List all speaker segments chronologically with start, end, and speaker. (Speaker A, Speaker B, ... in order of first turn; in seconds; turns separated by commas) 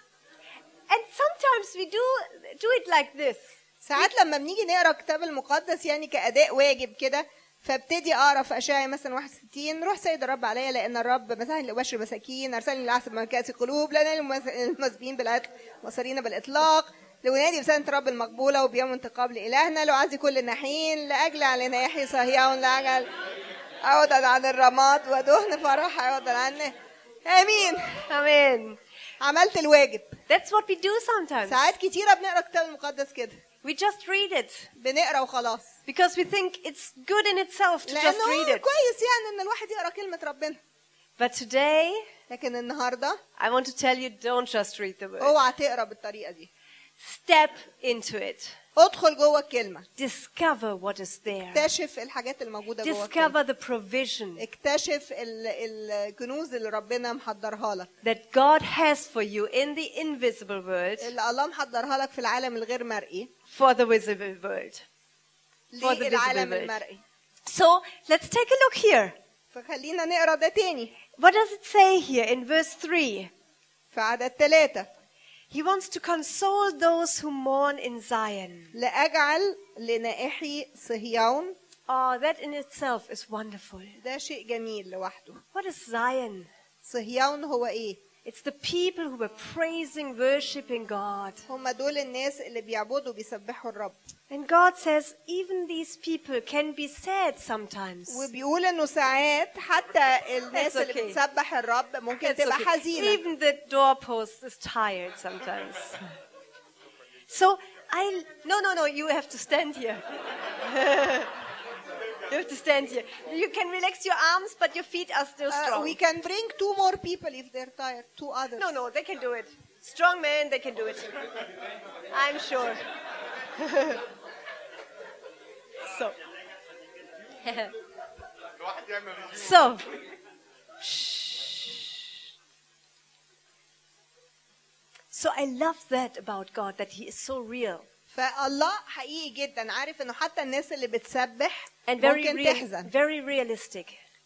Speaker A: 0.9-4.0, Speaker B: 3.8-23.1, Speaker B: 23.8-28.1, Speaker A: 28.1-28.8, Speaker B: 29.2-30.2, Speaker A: 30.3-31.7, Speaker B: 31.4-33.4, Speaker A: 33.6-34.7, Speaker B: 34.8-35.7, Speaker A: 35.9-38.7, Speaker B: 37.9-40.6, Speaker A: 41.2-42.1, Speaker B: 42.3-43.2, Speaker A: 43.4-45.4, Speaker B: 45.2-46.5, Speaker A: 47.0-48.6, Speaker B: 48.8-49.9, Speaker A: 50.0-51.7, Speaker B: 51.4-53.3, Speaker A: 52.8-54.4, Speaker B: 54.4-57.9, Speaker A: 58.0-61.1, Speaker B: 61.0-63.3, Speaker A: 63.5-64.8, Speaker B: 65.7-67.0, Speaker A: 65.8-66.8, Speaker A: 67.5-69.2, Speaker B: 69.5-70.9, Speaker A: 71.2-73.3, Speaker B: 73.9-74.9, Speaker A: 75.5-78.7, Speaker B: 78.7-81.5, Speaker A: 81.9-84.0, Speaker B: 84.0-85.4, Speaker A: 85.5-86.5, Speaker B: 86.8-88.0, Speaker A: 88.2-91.4, Speaker B: 91.5-94.0, Speaker A: 94.3-98.3, Speaker B: 98.1-103.2, Speaker A: 100.5-101.2, Speaker A: 102.2-106.0, Speaker A: 107.3-110.0, Speaker A: 110.5-111.3, Speaker A: 112.3-116.0, Speaker B: 115.5-118.8, Speaker A: 118.6-121.4, Speaker A: 122.1-122.8, Speaker A: 123.5-124.0, Speaker A: 125.9-126.1, Speaker A: 127.4-127.7, Speaker A: 129.1-129.9, Speaker A: 130.8-132.0, Speaker A: 135.1-137.9, Speaker B: 138.1-142.9, Speaker A: 141.9-144.0